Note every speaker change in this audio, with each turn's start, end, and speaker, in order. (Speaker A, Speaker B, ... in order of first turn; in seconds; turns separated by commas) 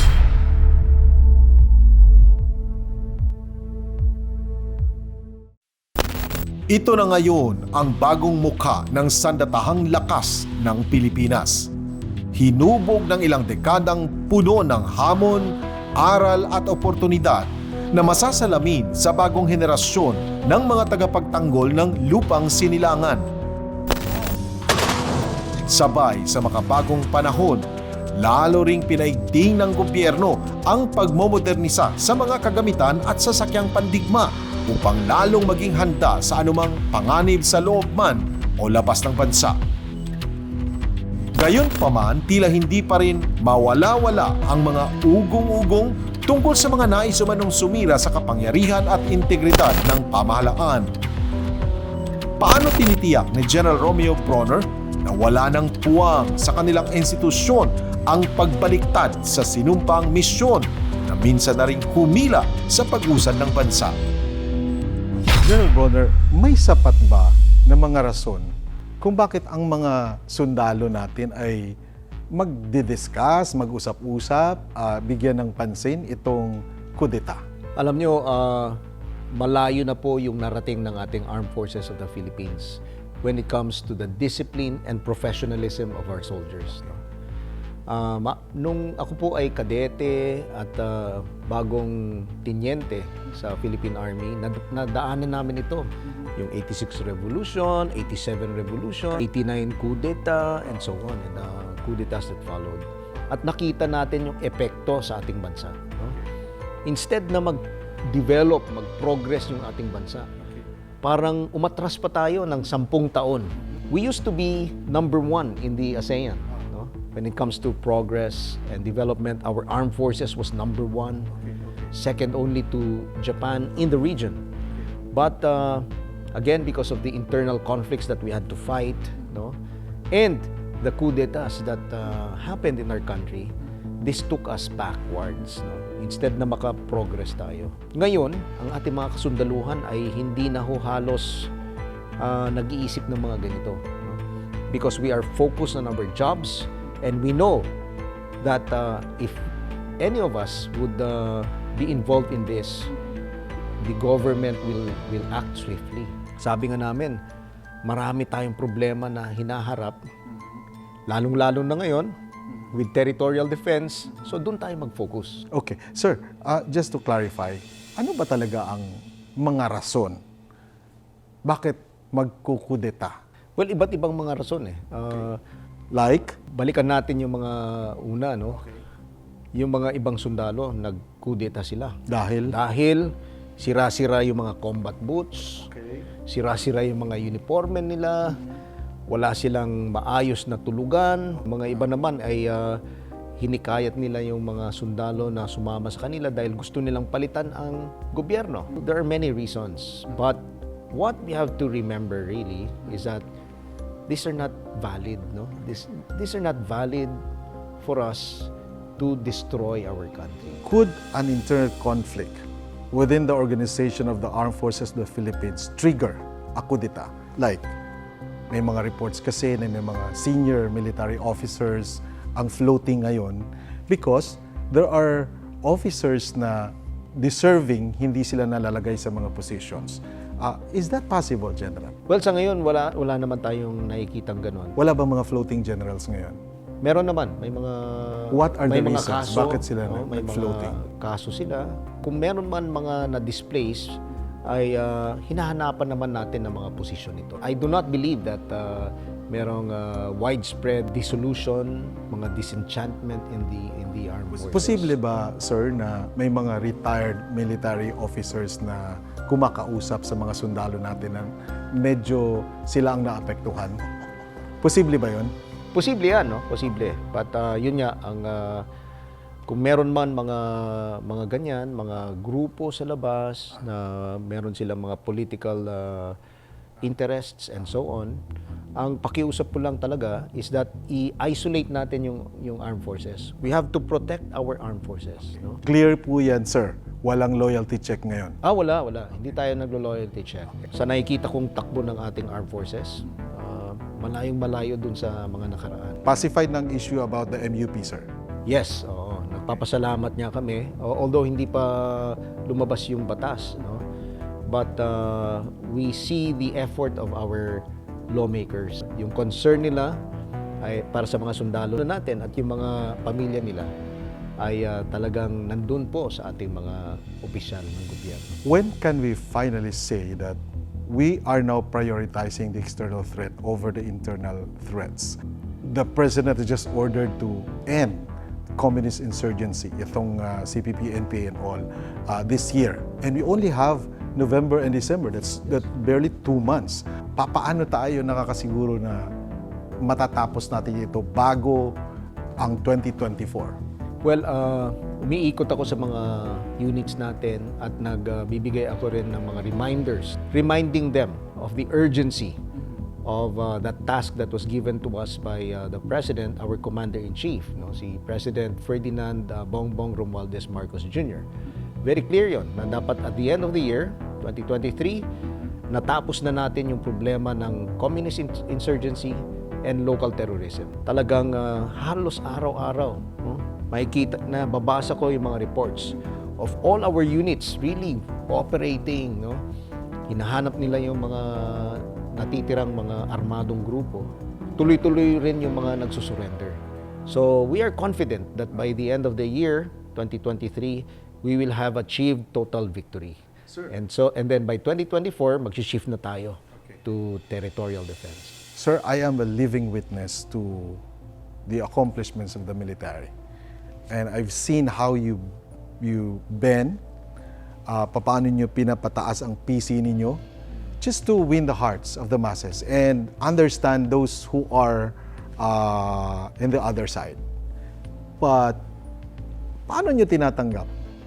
Speaker A: 6.7-11.7, Speaker A: 12.3-23.3, Speaker A: 25.7-27.6, Speaker A: 28.1-39.6, Speaker A: 41.4-50.9, Speaker A: 52.4-64.0, Speaker B: 65.4-71.8, Speaker B: 72.3-77.4, Speaker C: 77.8-78.8, Speaker C: 79.3-87.0, Speaker C: 87.9-106.2, Speaker C: 106.8-110.3, Speaker C: 111.0-121.3, Speaker C: 121.9-124.4, Speaker C: 125.1-129.6, Speaker C: 130.1-141.5, Speaker C: 142.2-144.2, Speaker C: 144.7-147.7, Speaker C: 148.4-152.9, Speaker C: 153.8-157.2, Speaker C: 157.8-160.0, Speaker C: 161.1-162.2, Speaker C: 162.7-165.4, Speaker B: 165.5-170.2, Speaker B: 171.4-173.2, Speaker C: 173.6-175.4, Speaker B: 175.9-176.3, Speaker C: 176.3-178.6, Speaker C: 179.6-185.7, Speaker B: 182.1-182.6, Speaker C: 186.3-188.4, Speaker C: 189.1-192.8, Speaker C: 193.4-203.2, Speaker C: 204.1-207.2, Speaker C: 207.8-210.6, Speaker B: 210.6-217.7, Speaker B: 218.5-231.9, Speaker C: 232.1-234.8, Speaker B: 234.8-236.4, Speaker C: 236.8-255.0, Speaker B: 238.3-240.8, Speaker B: 254.4-263.8, Speaker B: 264.6-265.3, Speaker C: 265.7-268.7, Speaker C: 269.5-276.2, Speaker C: 276.8-278.2, Speaker C: 278.8-285.6, Speaker B: 285.6-288.4, Speaker C: 288.4-296.1, Speaker B: 296.1-298.1, Speaker C: 298.5-303.9, Speaker C: 304.4-310.0, Speaker C: 310.6-313.7, Speaker C: 314.4-318.4, Speaker B: 318.4-339.1, Speaker B: 339.8-341.8, Speaker B: 342.4-343.6, Speaker C: 344.0-352.4, Speaker C: 353.0-361.3, Speaker C: 361.8-365.1, Speaker C: 365.7-379.4, Speaker C: 380.1-398.4, Speaker B: 398.6-400.8, Speaker B: 401.5-403.1, Speaker B: 403.9-406.8, Speaker B: 407.7-410.2, Speaker B: 410.8-417.2, Speaker B: 418.2-418.6, Speaker B: 419.7-420.7